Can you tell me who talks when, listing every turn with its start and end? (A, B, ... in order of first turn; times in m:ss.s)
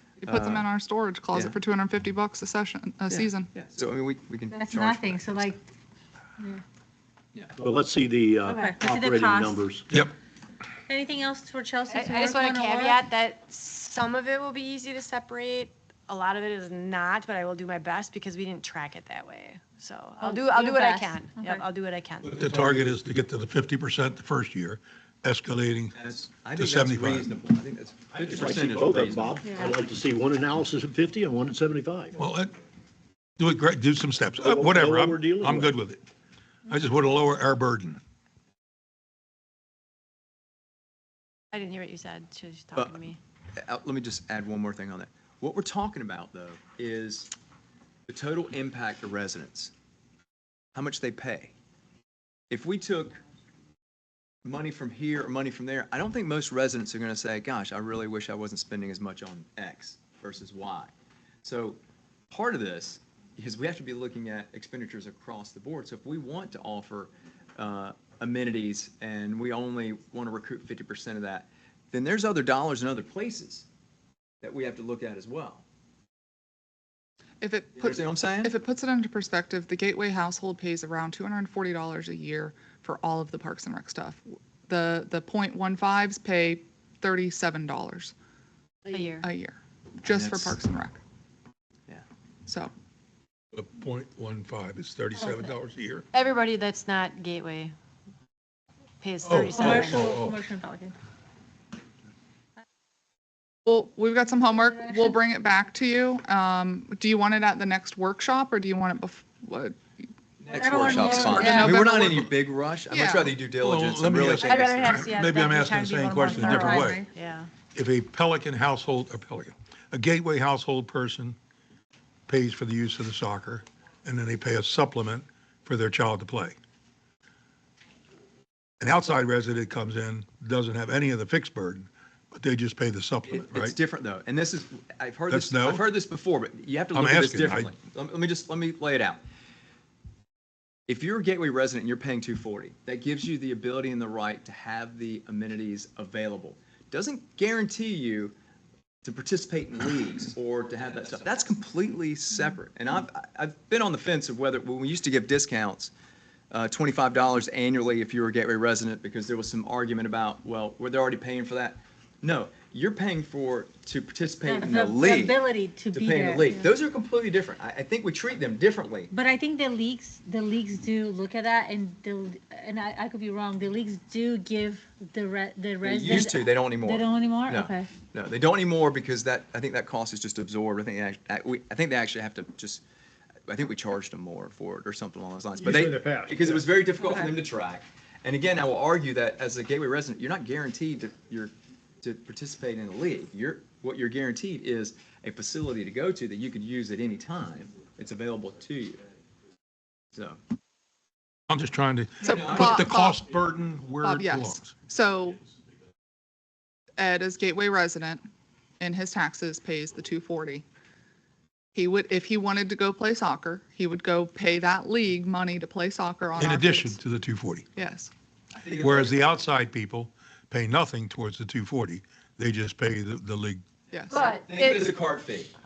0:00.2-0:03.5 A
0:00.2-0:00.7 B
0:01.3-0:01.6 B
0:03.1-0:05.6 B
0:04.5-0:05.6 C
0:07.6-0:09.8 D
0:08.5-0:08.8 E
0:08.5-0:09.6 C
0:10.9-0:13.0 C
0:11.9-0:22.6 E
0:20.2-0:21.6 C
0:22.2-0:26.0 F
0:26.0-0:29.7 B
0:26.6-0:27.3 F
0:28.1-0:32.2 D
0:29.5-0:29.7 C
0:32.2-0:32.5 F
0:33.4-0:36.0 F
0:34.4-0:35.7 D
0:36.7-0:38.0 F
0:41.5-0:43.2 E
0:43.6-0:47.3 B
0:48.1-0:49.7 B
0:50.8-0:51.5 B
0:52.5-0:53.2 B
0:54.4-1:00.9 B
1:01.4-1:01.8 B
1:02.3-1:13.7 B
1:14.4-1:15.6 B
1:17.4-1:28.1 A
1:17.8-1:18.5 B
1:28.9-1:29.3 E
1:29.2-1:31.0 A
1:30.0-1:30.6 B
1:33.5-1:36.0 F
1:36.1-1:37.8 E
1:39.0-1:40.0 E
1:39.2-1:40.4 F
1:39.4-1:40.9 C
1:43.7-1:49.8 A
1:50.4-1:55.1 B
1:50.5-1:51.8 C
1:50.6-1:52.3 A
1:52.9-1:53.4 A
1:53.6-1:57.0 F
1:54.4-1:57.5 E
1:56.3-1:57.1 C
1:57.7-2:01.4 F
2:02.3-2:06.6 F
2:08.8-2:13.8 F
2:13.3-2:19.2 B
2:15.3-2:15.9 F
2:16.9-2:17.7 F
2:20.9-2:28.3 B
2:29.0-2:35.9 B
2:36.5-2:45.4 B
2:44.4-2:46.7 C
2:45.9-2:49.1 B
2:49.1-2:57.9 C
2:55.8-3:02.8 B
3:03.5-3:19.0 B
3:05.6-3:06.6 D
3:07.0-3:07.3 C
3:20.1-3:20.4 B
3:21.5-3:24.7 F
3:22.2-3:23.2 A
3:22.2-3:22.9 B
3:24.0-3:25.4 A
3:27.0-3:28.2 A
3:28.8-3:30.6 A
3:31.8-3:37.0 A
3:36.4-3:37.7 F
3:37.8-3:38.1 A
3:38.6-3:39.2 B
3:38.8-3:43.6 F
3:43.9-3:44.3 A
3:44.1-3:44.9 E
3:44.2-3:45.5 B